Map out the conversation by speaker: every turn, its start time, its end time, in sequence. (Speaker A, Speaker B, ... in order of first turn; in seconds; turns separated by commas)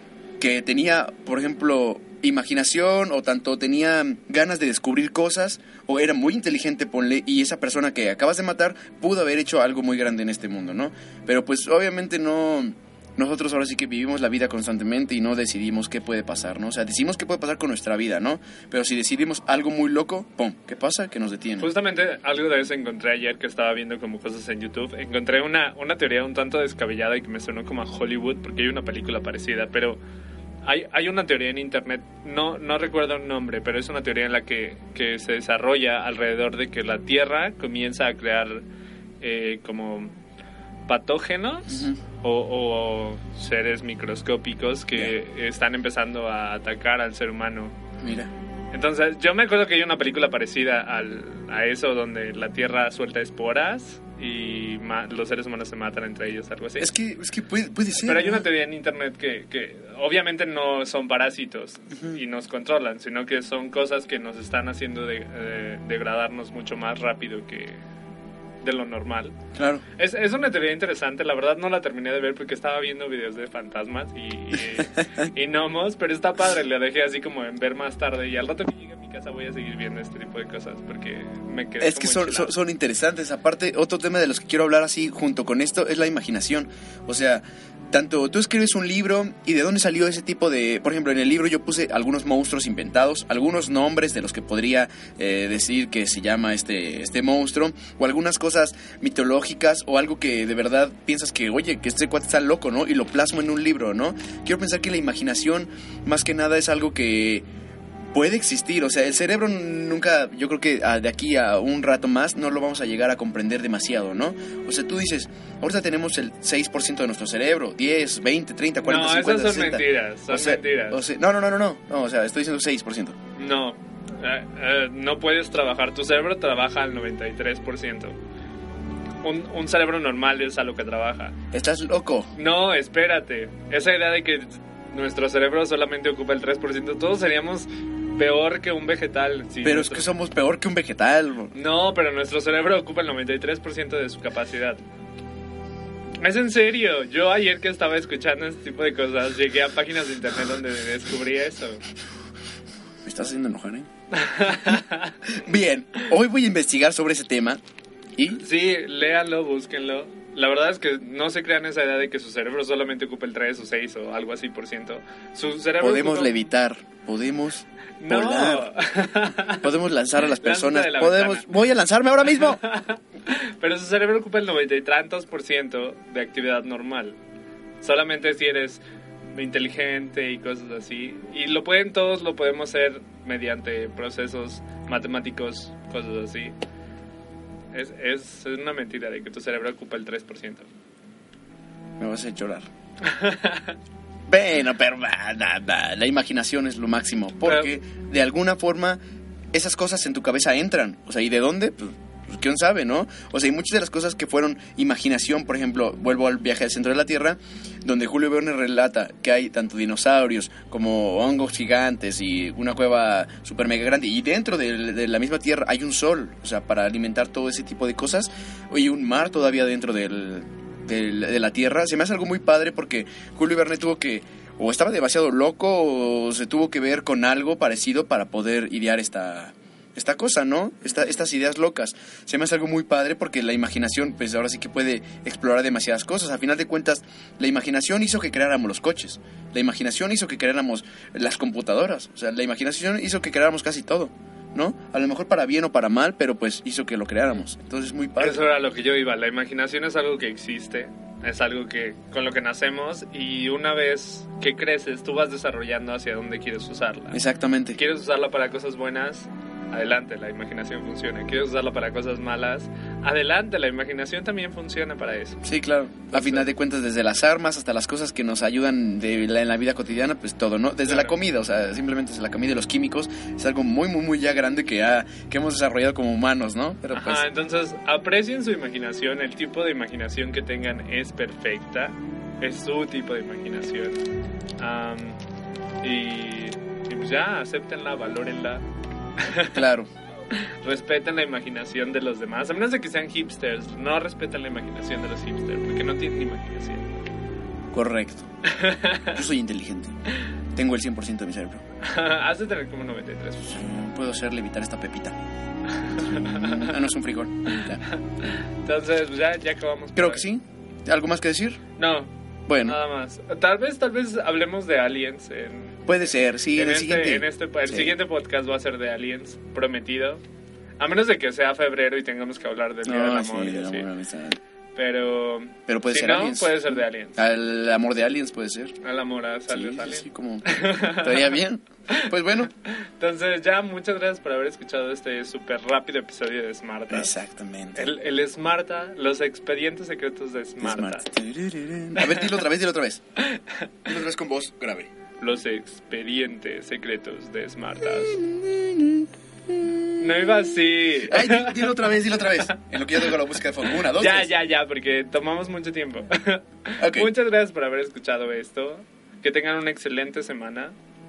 Speaker A: 0.4-21.7, Speaker B: 21.6-30.0, Speaker B: 30.6-38.6, Speaker B: 39.2-40.1, Speaker B: 40.9-47.8, Speaker A: 41.7-42.0, Speaker A: 48.0-48.3, Speaker B: 48.7-56.9, Speaker A: 56.8-58.5, Speaker B: 58.0-67.8, Speaker B: 68.6-69.3, Speaker A: 69.5-69.8, Speaker B: 69.9-82.5, Speaker A: 81.8-107.4, Speaker A: 108.1-123.1, Speaker B: 118.8-121.0, Speaker B: 123.4-128.2, Speaker B: 129.2-131.3, Speaker A: 131.5-132.3, Speaker B: 132.3-140.1, Speaker A: 139.6-141.5, Speaker B: 141.5-144.8, Speaker B: 146.2-151.8, Speaker A: 153.0-153.9, Speaker B: 154.1-155.2, Speaker A: 155.2-157.6, Speaker A: 158.2-158.4, Speaker B: 158.3-166.5, Speaker A: 165.8-168.7, Speaker B: 168.0-169.7, Speaker A: 169.5-172.6, Speaker B: 170.2-171.5, Speaker B: 172.3-177.2, Speaker B: 177.8-178.8, Speaker B: 179.3-186.5, Speaker B: 187.7-190.7, Speaker A: 192.0-192.7, Speaker B: 193.0-193.8, Speaker A: 194.3-199.0, Speaker B: 197.4-197.7, Speaker A: 199.5-248.4, Speaker B: 248.2-257.2, Speaker A: 257.1-257.8, Speaker B: 257.7-265.4, Speaker A: 265.4-277.2, Speaker B: 266.1-266.5, Speaker B: 270.9-271.1, Speaker B: 276.9-284.0, Speaker B: 284.6-285.2, Speaker B: 285.8-288.6, Speaker B: 289.2-289.6, Speaker A: 289.5-289.9, Speaker B: 290.3-296.8, Speaker A: 297.7-298.3, Speaker B: 298.4-299.2, Speaker A: 299.1-299.9, Speaker A: 300.5-301.6, Speaker B: 301.8-303.6, Speaker A: 303.4-305.1, Speaker B: 305.8-306.7, Speaker A: 306.0-307.8, Speaker B: 307.5-310.2, Speaker A: 309.9-311.6, Speaker B: 311.8-312.1, Speaker A: 312.5-312.8, Speaker B: 312.6-315.9, Speaker A: 315.9-318.0, Speaker B: 316.5-320.2, Speaker B: 320.8-323.9, Speaker A: 322.8-324.4, Speaker B: 324.8-327.2, Speaker A: 325.7-328.7, Speaker B: 328.8-331.4, Speaker A: 329.5-332.5, Speaker B: 331.9-337.1, Speaker A: 336.9-337.9, Speaker B: 337.8-341.1, Speaker A: 340.6-343.0, Speaker B: 342.0-342.2, Speaker B: 343.2-343.7, Speaker A: 343.9-344.9, Speaker B: 345.2-348.2, Speaker A: 347.9-354.3, Speaker B: 350.0-352.4, Speaker B: 353.8-360.7, Speaker A: 356.8-357.1